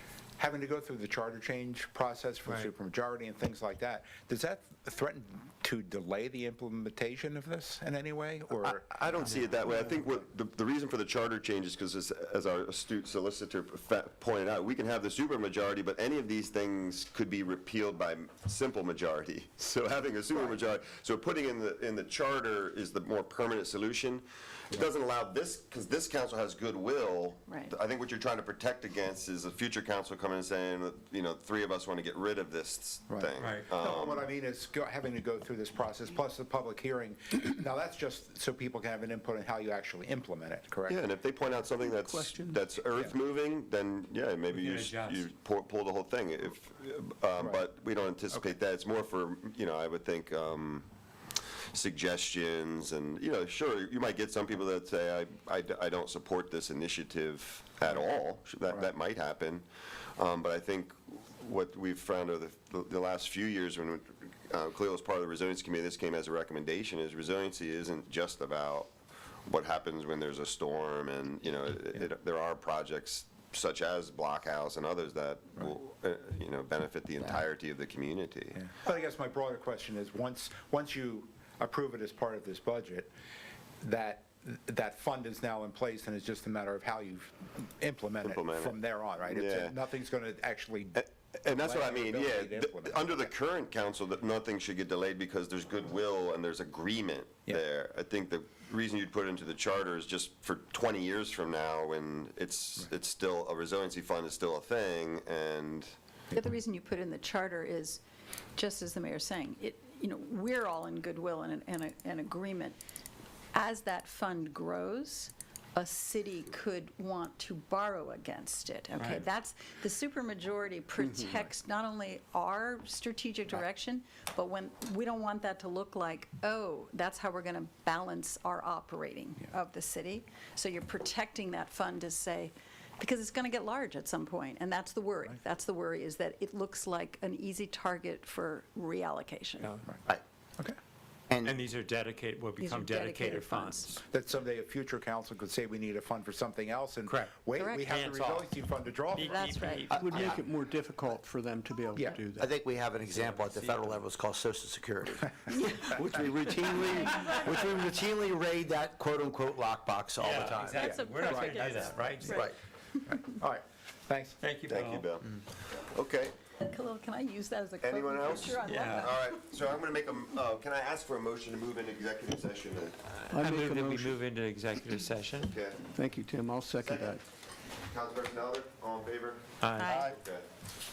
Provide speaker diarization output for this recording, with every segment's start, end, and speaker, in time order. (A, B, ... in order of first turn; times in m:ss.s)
0:00.4-0:08.9 A
0:02.4-0:02.7 B
0:08.6-0:34.3 C
0:09.2-0:09.9 B
0:27.5-0:27.7 D
0:33.1-0:41.0 A
0:33.4-0:33.7 B
0:40.9-0:50.9 C
0:42.0-0:42.6 E
0:44.5-0:45.2 B
0:47.4-0:47.6 A
0:51.7-1:08.9 C
1:09.4-1:18.6 C
1:18.5-1:23.1 A
1:23.8-1:33.1 A
1:28.2-1:29.8 C
1:31.0-1:45.9 C
1:46.3-1:48.0 D
1:48.6-1:52.8 D
1:53.5-2:19.7 D
1:58.9-1:59.3 B
2:01.0-2:01.4 E
2:19.6-2:20.0 B
2:21.3-2:21.5 F
2:21.4-2:24.0 B
2:22.6-2:23.9 D
2:23.9-2:29.8 A
2:27.0-2:27.3 B
2:27.5-2:27.9 D
2:27.9-2:28.5 B
2:29.1-2:30.3 B
2:29.2-2:29.9 D
2:29.9-2:32.5 E
2:29.9-2:30.4 F
2:32.4-2:41.0 F
2:33.3-2:33.7 B
2:35.5-2:35.9 D
2:36.7-2:37.7 D
2:40.2-2:42.4 B
2:40.5-2:42.5 D
2:40.8-2:41.8 A
2:42.3-2:42.5 F
2:43.1-2:44.4 A
2:44.4-2:45.4 B
2:44.7-2:46.3 C
2:46.6-2:49.2 D
2:47.8-2:53.1 C
2:48.6-2:49.1 B
2:53.2-2:55.6 B
2:53.3-2:54.3 E
2:55.4-2:55.8 C
2:55.9-2:57.2 E
2:56.8-2:57.2 C
2:57.8-3:00.4 C
2:59.6-3:00.0 B
2:59.8-3:00.1 D